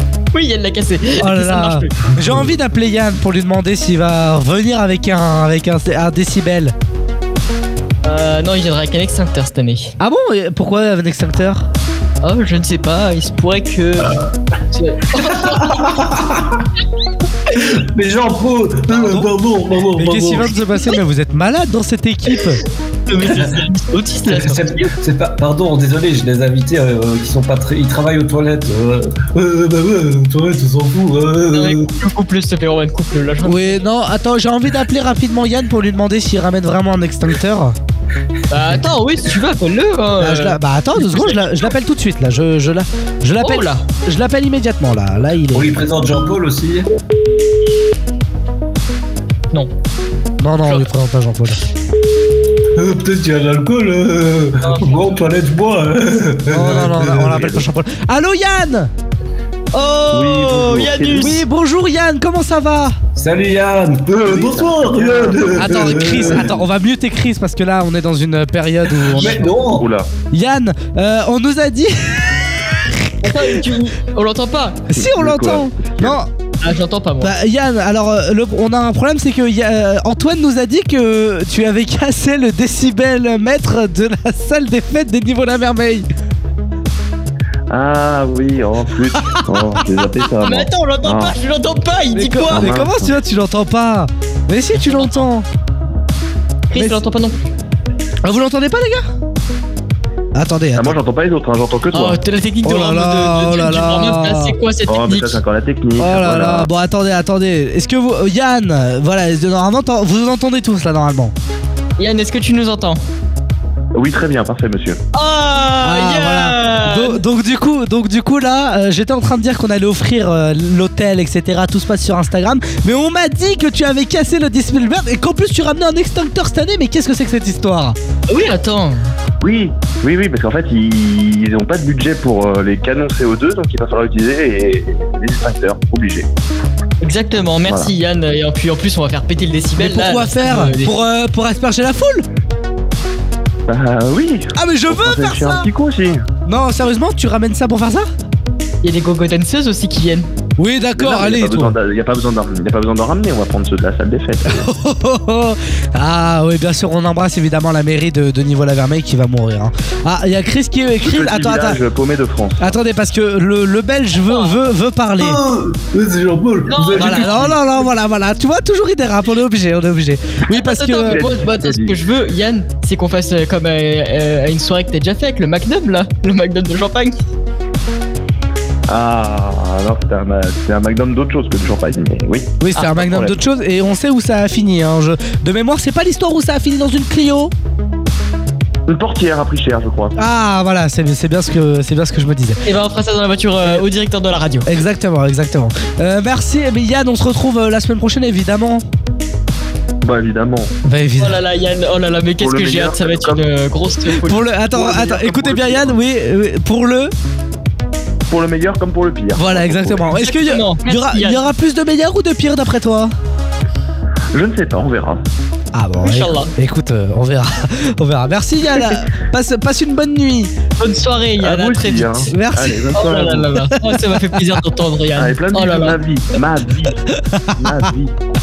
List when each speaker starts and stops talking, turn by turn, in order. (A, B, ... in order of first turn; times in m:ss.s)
0:00.3-0:01.9 A
0:01.2-0:06.7 B
0:08.0-0:09.9 A
0:10.0-0:11.7 B
0:12.2-0:14.2 A
0:14.7-0:15.7 A
0:15.5-0:16.5 C
0:17.6-0:20.5 C
0:18.9-0:19.3 B
0:19.9-0:22.6 B
0:23.1-0:24.9 A
0:23.3-0:23.5 C
0:24.3-0:31.8 C
0:31.5-0:33.7 A
0:33.4-0:37.8 B
0:38.5-0:41.4 A
0:40.2-0:45.8 B
0:43.4-0:43.8 A
0:45.5-0:46.8 C
0:50.4-0:51.6 B
0:52.8-0:57.6 C
0:54.6-0:55.2 A
0:56.5-0:58.9 B
0:59.7-1:03.0 B
1:00.1-1:01.4 D
1:00.3-1:01.4 A
1:03.2-1:06.5 C
1:04.2-1:05.5 D
1:05.5-1:09.5 B
1:09.1-1:09.9 C
1:09.6-1:10.0 D
1:10.3-1:12.4 B
1:13.2-1:14.8 A
1:14.9-1:16.3 B
1:14.9-1:16.2 D
1:16.6-1:17.3 A
1:17.2-1:26.0 B
1:27.7-1:31.3 D
1:29.3-1:29.8 B
1:30.4-1:32.8 A
1:32.1-1:35.4 B
1:32.5-1:33.1 D
1:34.8-1:35.2 A
1:36.7-1:37.5 A
1:36.7-1:37.0 B
1:38.2-1:39.1 B
1:40.3-1:41.0 B
1:40.7-1:42.2 D
1:41.9-1:45.4 A
1:42.6-1:44.5 B
1:44.9-1:46.7 D
1:46.0-1:51.3 B
1:52.0-1:53.0 A
1:53.9-1:55.0 D
1:55.1-1:57.2 A
1:55.8-2:08.0 B
2:08.3-2:09.1 A
2:09.4-2:16.3 D
2:17.0-2:20.9 A
2:17.6-2:17.9 D
2:19.8-2:22.2 B
2:23.7-2:26.2 D
2:24.5-2:25.6 B
2:26.4-2:28.1 B
2:28.8-2:30.3 A
2:30.6-2:31.7 B
2:31.0-2:34.7 D
2:34.5-2:41.8 B
2:41.0-2:42.8 D
2:42.6-2:45.4 B
2:45.2-2:47.6 C
2:46.7-2:47.6 A
2:47.0-2:51.2 B
2:50.5-2:57.2 A
2:51.0-2:52.0 D
2:58.9-3:03.3 D
3:02.6-3:07.5 B
3:08.9-3:10.1 D
3:10.2-3:12.6 B
3:12.6-3:14.7 A
3:14.6-3:18.8 B
3:20.0-3:20.7 D
3:20.8-3:21.4 B
3:21.2-3:25.9 A
3:22.4-3:23.4 D
3:24.2-3:27.1 B
3:28.3-3:30.0 D
3:29.3-3:33.1 B
3:30.1-3:31.4 A
3:34.3-3:35.2 D
3:35.7-3:40.5 B
3:36.0-3:36.5 A
3:40.8-3:42.3 A
3:41.4-3:43.5 D
3:42.3-3:43.2 B
3:42.9-3:46.0 A
3:45.2-3:46.9 D
3:47.1-3:47.8 B
3:47.6-3:48.1 D